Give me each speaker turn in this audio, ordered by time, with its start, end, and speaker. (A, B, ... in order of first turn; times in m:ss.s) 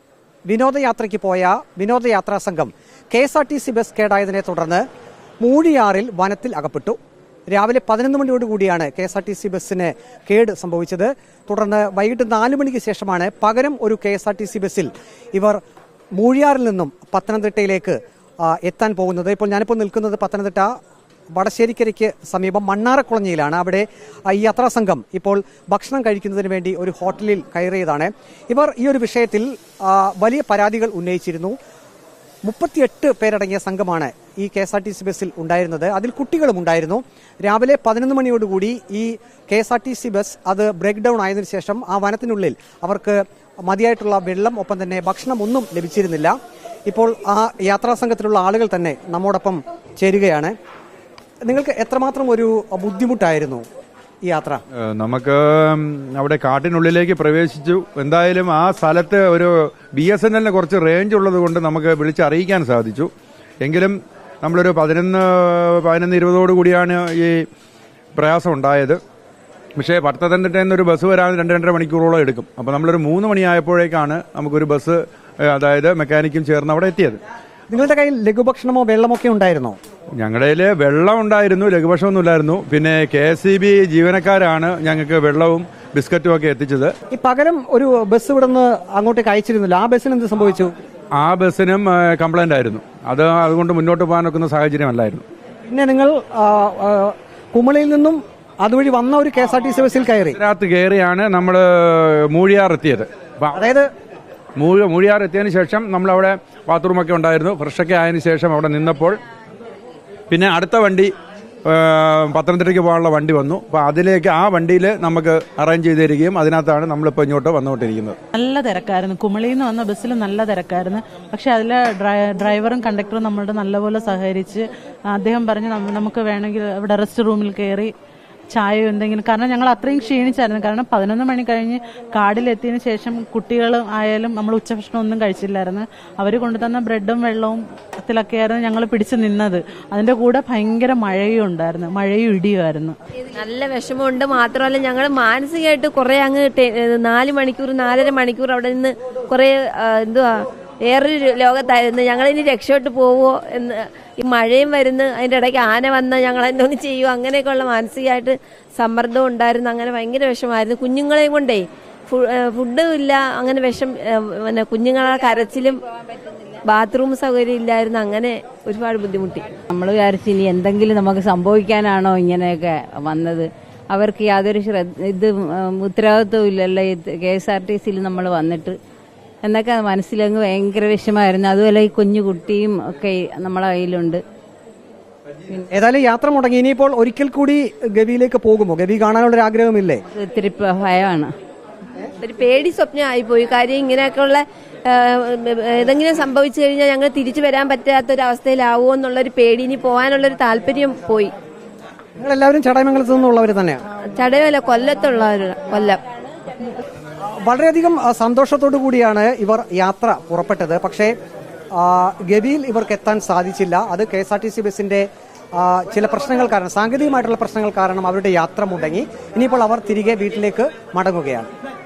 0:00.5-0:04.8 A
0:05.4-0:07.0 A
0:07.5-0:15.6 A
0:16.2-0:20.7 A
0:21.4-0:31.6 A
0:32.4-0:46.4 A
0:46.9-0:50.5 A
0:51.4-0:53.6 A
0:54.3-0:54.6 A
0:54.8-1:03.1 B
1:03.6-1:07.5 B
1:08.2-1:09.0 B
1:09.8-1:17.2 B
1:17.7-1:19.8 A
1:20.2-1:26.9 B
1:27.1-1:30.7 A
1:31.2-1:35.3 B
1:35.7-1:40.4 A
1:40.4-1:43.6 B
1:43.5-1:43.9 A
1:44.6-1:49.2 B
1:50.3-1:51.1 B
1:51.6-1:58.2 B
1:58.3-2:07.9 C
2:08.5-2:23.0 C
2:23.3-2:45.8 D
2:46.6-2:49.6 D
2:49.7-2:58.8 E
2:59.4-3:04.2 E
3:05.7-3:10.0 A
3:10.1-3:11.3 E
3:12.2-3:21.3 D
3:22.2-3:23.8 A
3:24.1-3:26.0 D
3:27.3-3:31.1 A
3:31.8-3:41.5 A